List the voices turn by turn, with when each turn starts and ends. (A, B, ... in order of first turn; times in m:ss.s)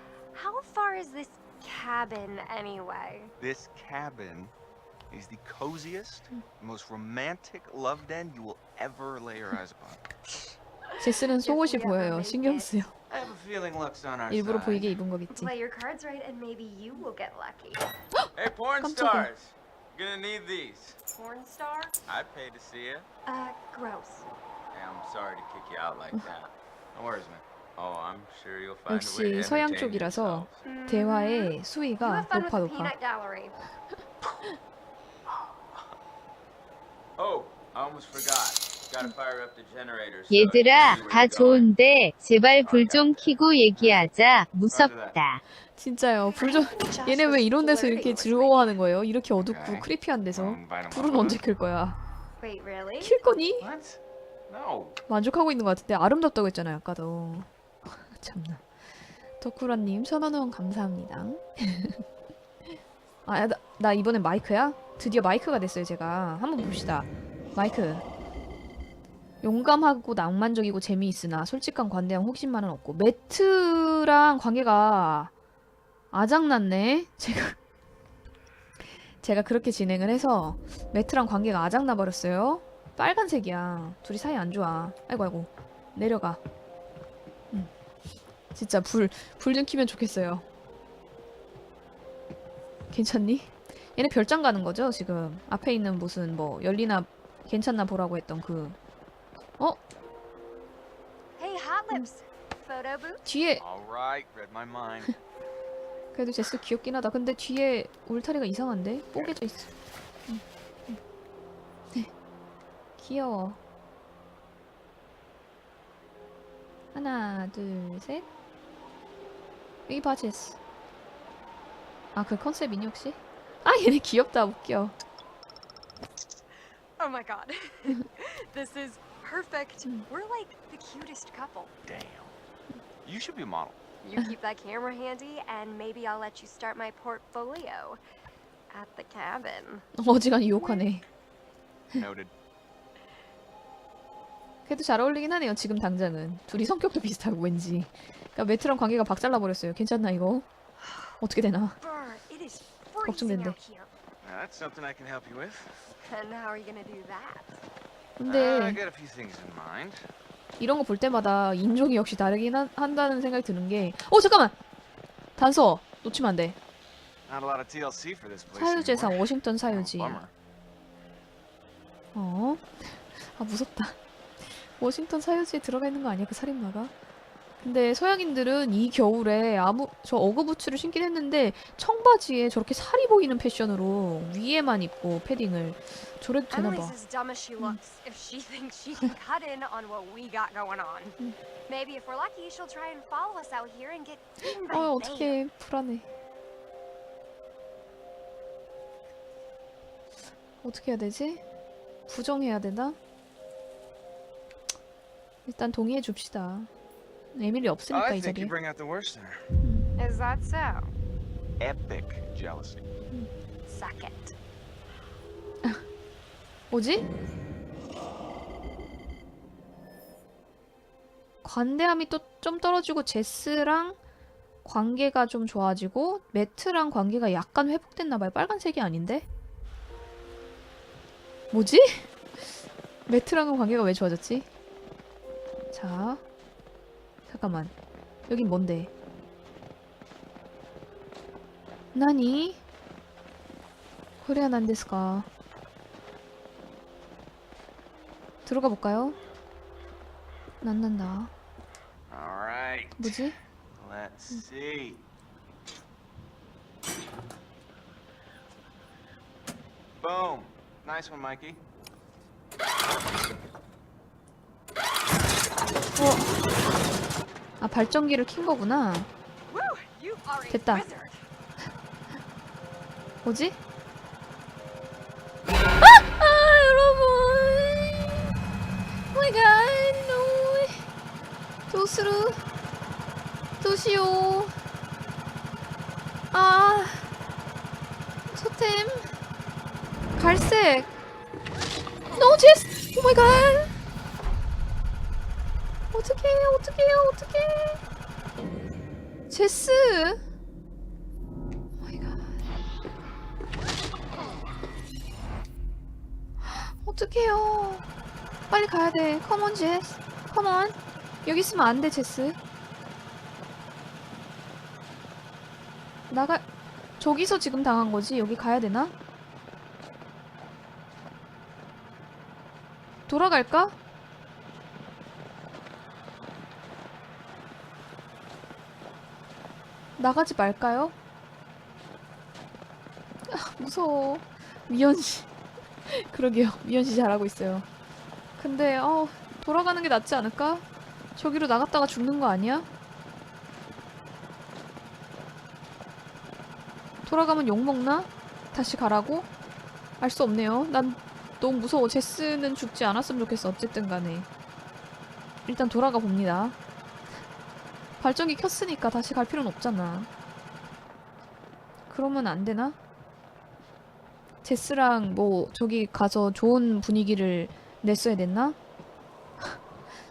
0:00.3-0:03.3 A
0:03.4-0:04.5 B
0:05.1-0:10.0 B
0:11.0-0:12.9 C
0:11.4-0:12.7 A
0:13.1-0:15.0 B
0:14.3-0:15.5 C
0:15.3-0:17.8 A
0:18.2-0:19.3 C
0:18.3-0:21.0 D
0:21.1-0:22.0 A
0:22.1-0:23.1 D
0:23.2-0:24.2 A
0:24.7-0:26.5 D
0:26.9-0:27.4 B
0:27.8-0:30.6 D
0:28.9-0:32.9 C
0:30.6-0:33.6 A
0:37.2-0:41.7 D
0:40.3-0:45.4 E
0:42.6-0:43.2 D
0:44.7-0:45.2 B
0:45.8-0:52.0 C
0:46.3-0:48.7 A
0:49.4-0:51.4 B
0:52.4-0:53.1 A
0:53.0-0:53.7 C
0:53.6-0:55.0 B
0:55.1-0:58.6 C
0:59.4-1:02.0 C
1:03.2-1:08.0 C
1:09.4-1:15.3 C
1:16.1-1:17.6 C
1:19.2-1:26.4 C
1:28.5-1:30.4 C
1:32.9-1:38.8 C
1:41.4-1:43.2 A
1:43.2-1:43.6 C
1:43.6-1:45.1 B
1:46.1-1:49.7 C
1:50.3-1:51.0 C
1:53.0-1:53.6 C
1:56.9-1:58.2 C
1:59.9-2:00.6 C
2:02.1-2:04.9 C
2:07.0-2:11.7 A
2:11.8-2:12.3 B
2:13.0-2:13.8 B
2:14.0-2:18.0 A
2:18.7-2:19.9 A
2:20.0-2:21.0 C
2:21.9-2:22.3 B
2:24.6-2:30.5 C
2:31.2-2:31.8 C
2:31.8-2:33.9 A
2:33.0-2:33.6 C
2:34.2-2:35.9 B
2:36.0-2:37.6 A
2:38.2-2:38.8 C
2:38.2-2:40.1 B
2:40.6-2:44.6 C
2:45.4-2:46.6 C
2:47.3-2:50.3 B
2:48.5-2:50.2 C
2:52.1-2:56.9 C
2:57.6-3:07.0 C
3:06.5-3:15.4 A
3:14.7-3:16.1 C
3:20.6-3:21.4 C
3:22.1-3:23.0 C
3:25.4-3:26.7 C
3:27.3-3:28.5 C
3:27.9-3:29.4 B
3:29.6-3:29.9 C
3:30.0-3:30.9 A
3:31.6-3:32.8 B
3:33.6-3:34.3 A
3:36.7-3:37.1 C
3:41.4-3:44.0 C
3:44.6-3:49.2 C
3:51.5-3:52.4 C
3:53.1-3:54.5 C
3:55.7-3:56.2 C
3:57.3-3:57.7 C
3:58.3-3:58.9 C
4:01.9-4:02.6 C
4:04.2-4:05.3 C
4:08.4-4:09.2 C
4:10.6-4:11.3 C
4:12.1-4:13.2 B
4:13.0-4:13.4 C
4:13.7-4:15.0 B
4:20.0-4:21.6 B
4:26.0-4:26.3 C
4:27.6-4:29.1 C
4:29.5-4:31.2 A
4:30.5-4:30.9 C
4:33.2-4:33.6 C
4:35.8-4:38.2 C
4:39.1-4:40.8 C
4:41.7-4:42.4 C
4:43.6-4:44.5 C
4:46.3-4:47.1 C
4:48.3-4:49.1 C
4:50.2-4:50.9 C
4:52.1-4:53.7 C
4:55.9-4:57.8 C
4:59.3-5:00.2 C
5:01.8-5:02.4 C
5:06.4-5:07.8 C
5:08.5-5:12.4 C
5:16.1-5:16.4 C
5:17.0-5:18.9 C
5:23.1-5:23.7 C
5:30.0-5:30.9 C
5:33.3-5:35.3 C
5:35.8-5:37.7 C
5:38.4-5:40.6 C
5:41.2-5:42.7 C
5:47.0-5:49.3 C
5:50.0-5:54.3 C
5:55.4-5:56.6 C
5:58.0-6:00.1 C
6:01.9-6:02.8 C
6:04.4-6:08.6 C